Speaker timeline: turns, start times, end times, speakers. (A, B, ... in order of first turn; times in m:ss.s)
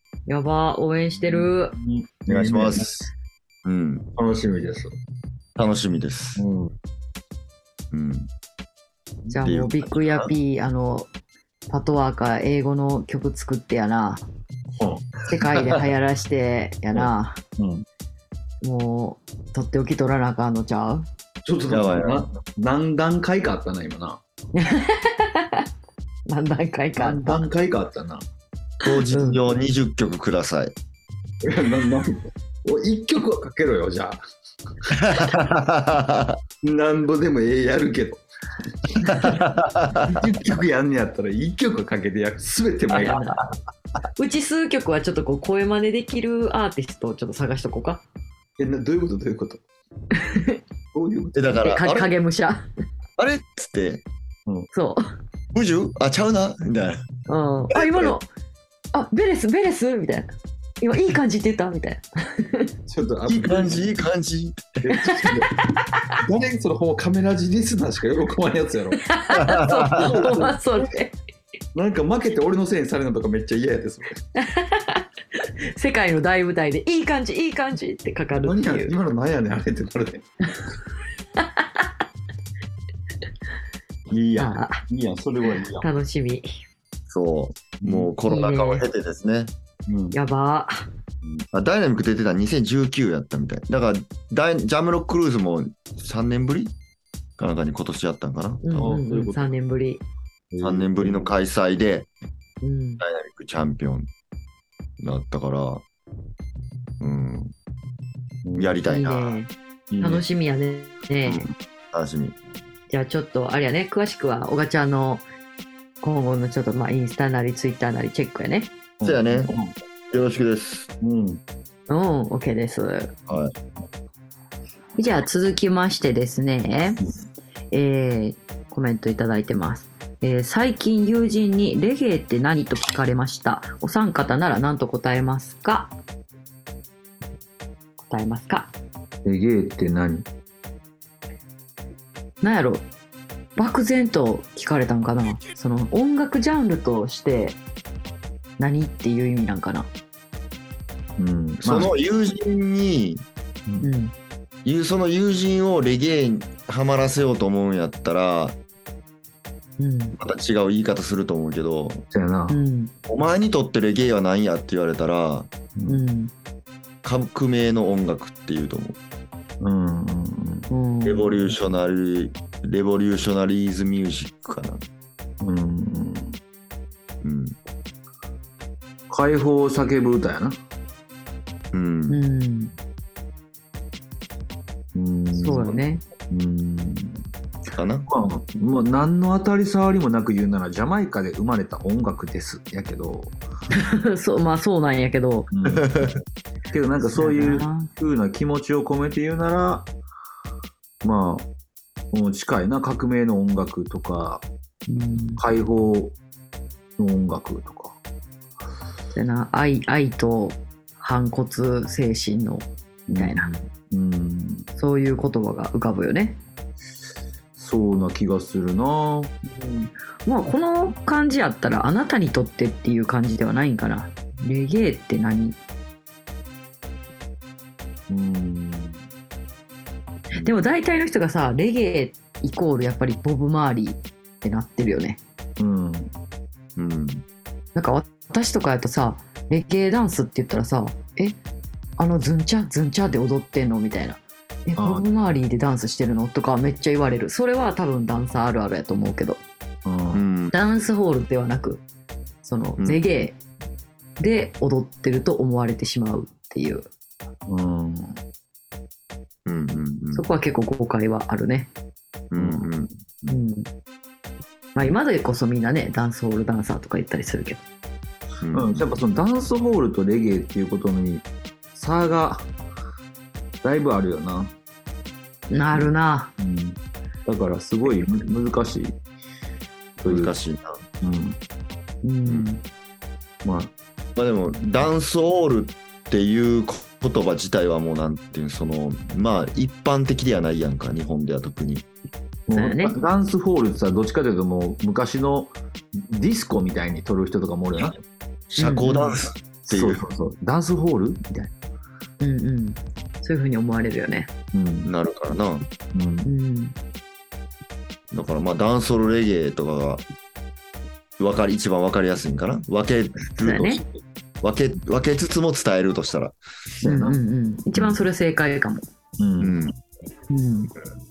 0:00.3-0:01.8 A
0:01.2-0:03.1 B
0:02.3-0:02.9 C
0:03.6-0:04.0 C
0:04.2-0:04.9 B
0:05.6-0:06.4 C
0:06.4-0:06.7 B
0:07.9-0:08.3 C
0:09.3-0:11.1 A
0:09.4-0:10.3 C
0:11.7-0:14.2 A
0:14.8-0:15.8 B
0:15.3-0:17.4 A
0:16.9-0:17.8 B
0:18.6-0:21.0 A
0:21.4-0:24.2 B
0:21.7-0:22.3 C
0:24.5-0:25.7 A
0:26.3-0:27.4 A
0:27.0-0:28.2 B
0:28.8-0:30.7 C
0:28.9-0:29.4 A
0:31.4-0:34.2 B
0:34.9-0:36.4 C
0:36.6-0:38.2 B
0:38.8-0:39.4 B
0:39.0-0:40.2 C
0:40.0-0:43.2 B
0:42.9-0:43.4 A
0:44.2-0:48.0 A
0:48.6-0:49.6 B
0:50.1-0:50.6 A
0:50.9-0:51.6 B
0:51.4-0:52.1 C
0:51.6-0:52.7 A
0:53.2-0:54.0 C
0:54.7-0:55.0 A
0:55.5-0:57.0 C
0:57.3-0:58.3 A
0:57.7-0:58.1 C
0:58.9-1:02.7 A
1:02.9-1:03.9 B
1:03.3-1:04.8 C
1:04.8-1:05.5 B
1:05.0-1:06.2 A
1:06.2-1:09.0 B
1:09.0-1:11.1 A
1:09.3-1:10.4 C
1:09.9-1:10.9 B
1:11.7-1:14.2 B
1:14.4-1:18.9 A
1:18.4-1:20.2 B
1:21.4-1:21.9 A
1:24.1-1:25.9 B
1:24.4-1:24.8 A
1:25.7-1:26.5 A
1:27.1-1:29.5 C
1:27.8-1:28.1 B
1:28.2-1:28.8 A
1:29.9-1:30.2 B
1:30.1-1:30.9 A
1:31.5-1:36.7 C
1:37.4-1:38.9 C
1:38.6-1:40.0 A
1:38.8-1:39.4 B
1:40.5-1:41.3 B
1:40.6-1:42.1 C
1:42.6-1:43.0 A
1:43.0-1:44.1 C
1:45.0-1:45.8 C
1:47.0-1:47.5 C
1:48.4-1:48.8 B
1:48.6-1:49.4 C
1:48.8-1:51.5 A
1:49.9-1:50.2 B
1:51.2-1:52.4 C
1:52.9-1:55.2 A
1:56.0-1:58.7 A
1:59.0-1:59.7 B
1:59.0-1:59.5 C
2:00.1-2:00.9 C
2:01.0-2:01.4 B
2:01.9-2:03.1 A
2:03.3-2:03.5 C
2:05.0-2:07.0 A
2:07.7-2:15.9 A
2:18.0-2:18.7 A
2:19.2-2:20.2 B
2:22.4-2:22.8 A
2:23.6-2:27.6 A
2:28.6-2:29.9 A
2:31.2-2:31.9 B
2:31.6-2:33.2 C
2:33.8-2:34.1 A
2:34.6-2:38.6 C
2:39.8-2:40.2 A
2:40.2-2:42.0 C
2:42.1-2:42.6 B
2:42.5-2:42.9 A
2:43.1-2:45.5 C
2:45.8-2:46.0 B
2:45.9-2:46.3 A
2:47.0-2:49.0 C
2:49.6-2:50.7 B
2:50.7-2:51.4 A
2:51.0-2:54.8 C
2:55.4-2:56.4 B
2:57.2-2:57.6 C
2:59.1-3:00.6 B
3:01.7-3:02.2 C
3:02.1-3:02.7 A
3:04.9-3:07.2 B
3:05.3-3:06.0 A
3:07.7-3:08.1 C
3:08.1-3:13.3 B
3:13.7-3:15.5 A
3:15.5-3:15.9 B
3:15.7-3:16.2 C
3:16.7-3:19.9 B
3:17.1-3:17.9 A
3:21.0-3:21.5 B
3:22.1-3:24.4 B
3:24.9-3:25.4 A
3:25.4-3:26.2 B
3:27.0-3:28.0 B
3:29.1-3:33.5 A
3:33.1-3:34.7 B
3:34.8-3:36.4 A
3:37.6-3:39.3 B
3:39.4-3:45.6 A
3:48.1-3:49.0 B
3:50.3-3:55.2 A
3:55.6-3:56.1 B
3:56.8-3:57.2 C
3:57.7-4:01.4 A
4:02.0-4:09.4 A
4:04.8-4:05.0 B
4:09.8-4:10.2 B
4:10.1-4:10.6 C
4:10.5-4:11.8 A
4:12.4-4:13.4 A
4:12.8-4:13.0 C
4:14.2-4:16.9 A
4:17.5-4:18.2 B
4:19.4-4:20.3 C
4:20.1-4:21.7 A
4:22.3-4:22.9 C
4:22.4-4:22.7 B
4:23.3-4:23.7 A
4:24.7-4:27.6 A
4:28.4-4:28.9 C
4:28.5-4:32.5 B
4:33.6-4:34.5 B
4:35.5-4:36.3 A
4:35.7-4:39.0 B
4:40.0-4:40.3 B
4:40.0-4:40.8 C
4:41.0-4:41.4 B
4:42.0-4:42.6 A
4:43.4-4:43.7 B
4:44.2-4:51.9 C
4:52.5-4:58.0 B
4:52.5-4:53.0 A
4:58.5-5:00.0 C
4:58.6-4:59.2 A
4:59.7-5:01.5 B
5:02.2-5:04.3 A
5:04.5-5:04.9 B
5:04.8-5:05.7 C
5:05.9-5:06.3 B
5:06.2-5:06.7 A
5:08.1-5:10.0 C
5:11.2-5:13.9 C
5:13.4-5:13.8 A
5:14.4-5:16.4 C
5:16.8-5:17.2 B
5:16.8-5:18.8 A
5:17.8-5:18.0 C
5:19.2-5:19.6 B
5:19.4-5:19.8 C
5:20.3-5:20.7 A